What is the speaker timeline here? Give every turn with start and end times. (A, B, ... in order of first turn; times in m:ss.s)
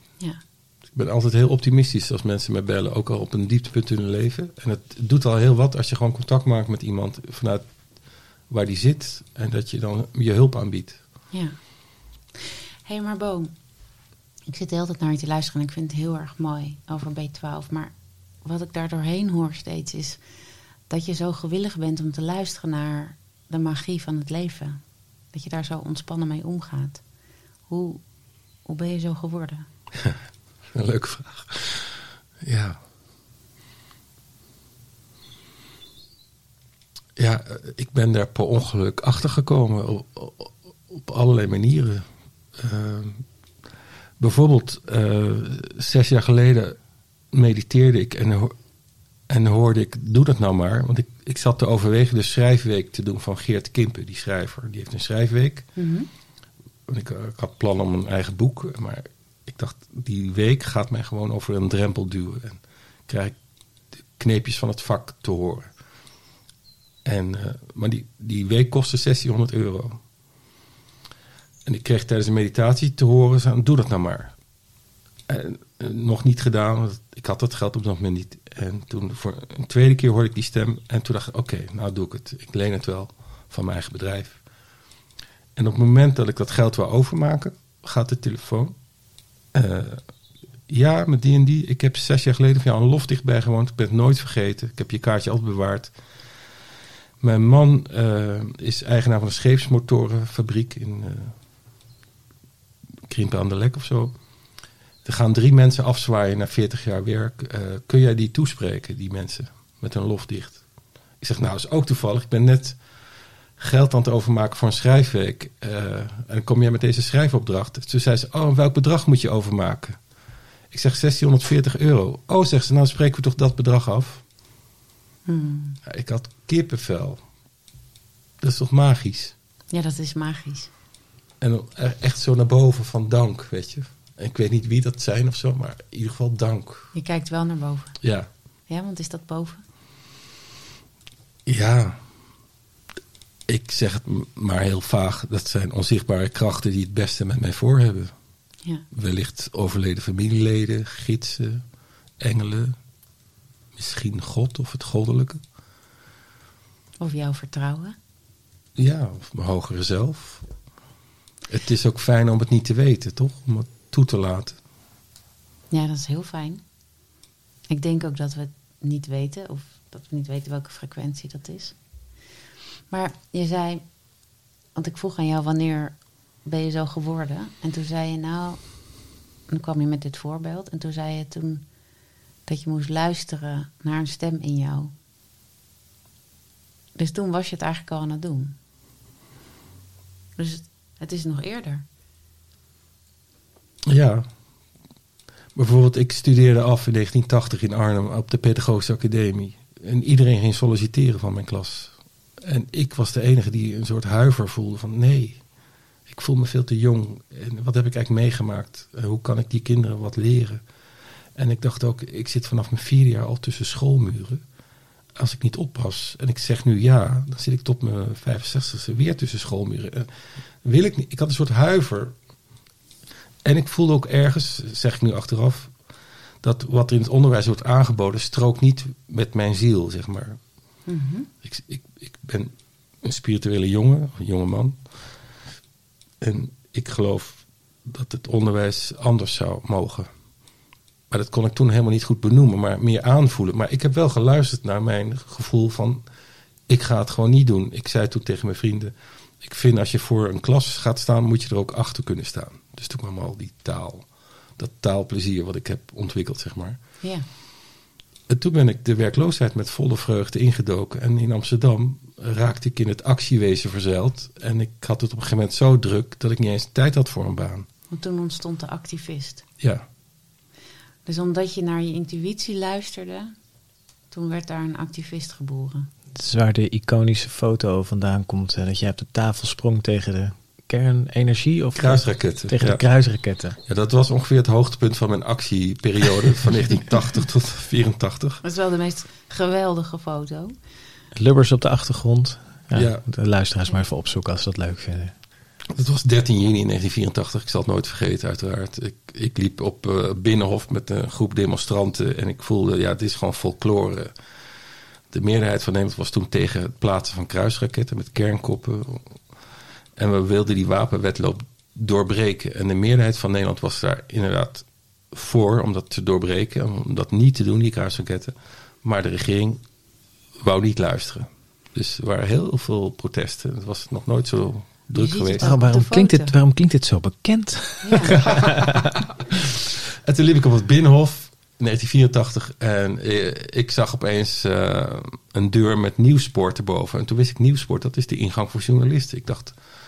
0:00.9-0:07.7 A
0:08.5-0:11.0 A
0:11.3-0:11.6 B
0:12.8-0:13.5 B
0:14.4-0:20.2 B
0:20.9-0:24.8 B
0:25.3-0:27.0 B
0:27.7-0:28.0 B
0:28.6-0:29.7 B
0:30.7-0:32.8 A
0:37.2-0:43.2 A
0:44.2-0:46.8 A
0:47.3-0:48.5 A
0:49.3-0:55.7 A
0:55.8-0:56.1 B
0:56.9-1:03.4 A
1:04.1-1:05.7 A
1:07.0-1:10.0 A
1:11.6-1:14.3 A
1:15.3-1:24.4 A
1:25.6-1:28.7 A
1:29.5-1:30.0 A
1:30.7-1:35.9 A
1:37.2-1:41.4 A
1:43.1-1:44.1 A
1:45.0-1:50.6 A
1:51.2-1:52.8 A
1:53.6-2:00.0 A
2:00.7-2:04.2 A
2:05.3-2:05.8 B
2:05.8-2:07.2 A
2:08.4-2:09.3 A
2:09.7-2:10.7 B
2:11.4-2:16.9 A
2:16.9-2:18.0 B
2:18.0-2:18.3 A
2:18.7-2:19.6 B
2:21.4-2:22.0 A
2:23.5-2:28.1 A
2:28.9-2:31.6 A
2:32.2-2:32.8 A
2:33.8-2:35.4 A
2:37.0-2:37.9 B
2:38.8-2:40.5 A
2:41.5-2:44.6 A
2:45.7-2:46.6 B
2:47.7-2:51.8 B
2:52.9-2:54.0 B
2:54.7-2:58.8 B
2:59.5-3:01.7 B
3:02.4-3:04.9 B
3:06.9-3:08.6 B
3:10.4-3:11.8 B
3:13.8-3:14.3 A
3:15.5-3:25.4 A
3:26.1-3:30.6 A
3:31.3-3:34.4 A
3:35.2-3:42.2 A
3:43.4-3:45.7 A
3:46.4-3:50.4 A
3:50.8-3:51.3 B
3:51.4-3:54.8 A
3:56.2-4:00.1 A
4:01.1-4:06.0 A
4:06.7-4:16.8 A
4:17.0-4:17.3 B
4:18.3-4:27.7 A
4:27.9-4:29.4 B
4:29.6-4:29.8 A
4:31.0-4:33.3 B
4:34.1-4:35.9 B
4:36.1-4:43.6 C
4:41.8-4:42.8 A
4:43.6-4:48.4 A
4:48.4-4:50.5 B
4:51.1-4:55.1 C
4:52.7-4:53.0 A
4:55.7-5:04.1 A
5:05.1-5:09.2 A
5:10.0-5:19.6 A
5:20.4-5:25.5 A
5:24.9-5:26.3 B
5:25.4-5:28.9 C
5:27.8-5:28.2 B
5:28.2-5:28.9 A
5:30.0-5:39.6 A